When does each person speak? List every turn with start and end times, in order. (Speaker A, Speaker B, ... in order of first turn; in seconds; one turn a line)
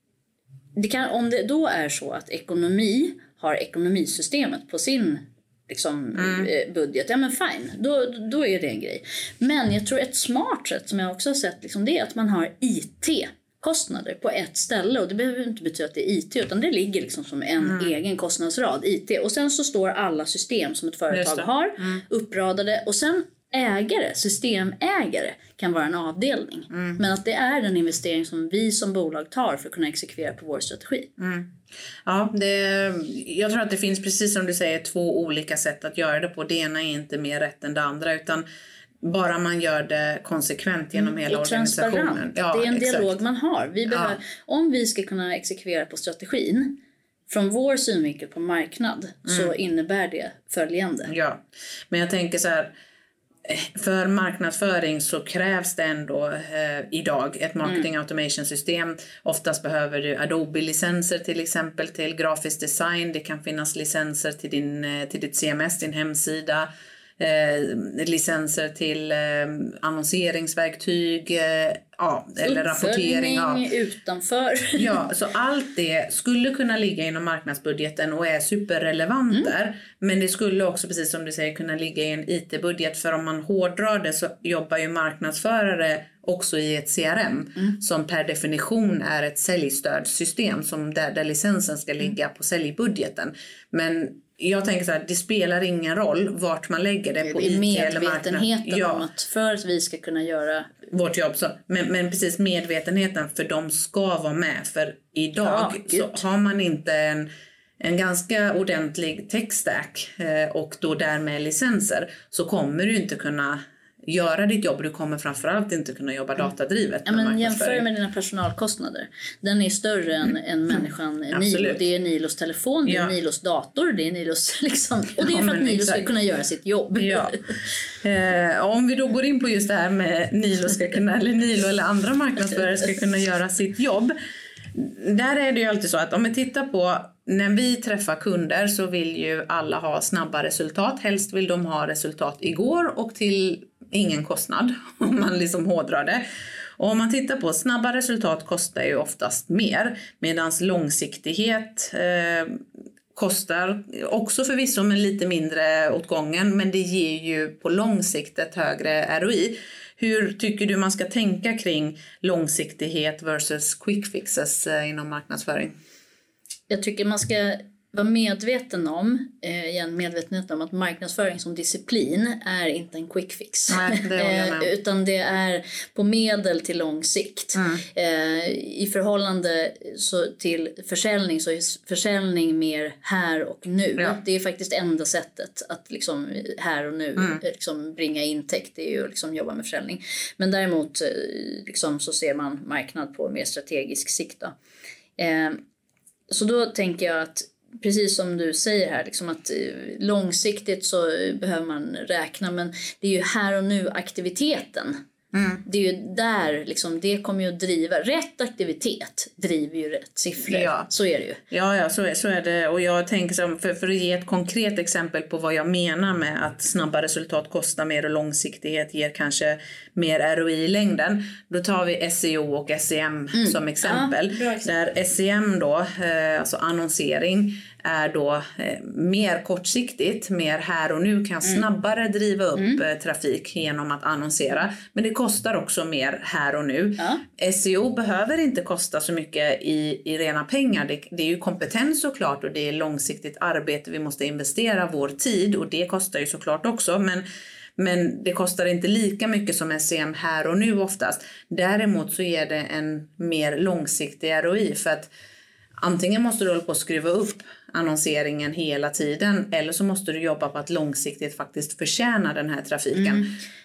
Speaker A: 0.8-31.1
Speaker B: 6.2-6.5
Speaker B: 17.6-17.9
Speaker B: 21.1-22.0
Speaker B: 26.7-27.0
Speaker B: 31.2-31.5
Speaker B: 32.1-38.5
Speaker B: 39.0-43.2
Speaker A: 41.0-46.8
Speaker B: 43.9-44.2
Speaker A: 47.3-51.1
Speaker B: 49.3-49.5
Speaker B: 51.1-52.7
Speaker B: 53.5-73.7
Speaker A: 72.4-75.0
Speaker B: 74.8-99.1
Speaker A: 97.2-100.7
Speaker B: 100.9-107.3
Speaker A: 105.4-106.2
Speaker B: 107.8-117.8
Speaker A: 117.1-127.5
Speaker B: 121.3-121.8
Speaker B: 122.9-123.1
Speaker B: 125.2-126.1
Speaker B: 126.9-127.4
Speaker B: 128.0-134.2
Speaker B: 134.7-146.2
Speaker B: 146.8-152.6
Speaker B: 153.2-165.7
Speaker A: 166.7-194.6
Speaker B: 173.7-174.7
Speaker B: 177.6-177.8
Speaker A: 195.2-195.6
Speaker A: 196.3-205.0
Speaker B: 205.3-205.6
Speaker A: 205.6-211.4
Speaker B: 210.3-210.9
Speaker B: 211.5-247.2
Speaker A: 223.3-224.7
Speaker A: 237.0-237.2
Speaker B: 247.8-255.1
Speaker B: 255.8-263.3
Speaker A: 262.9-263.3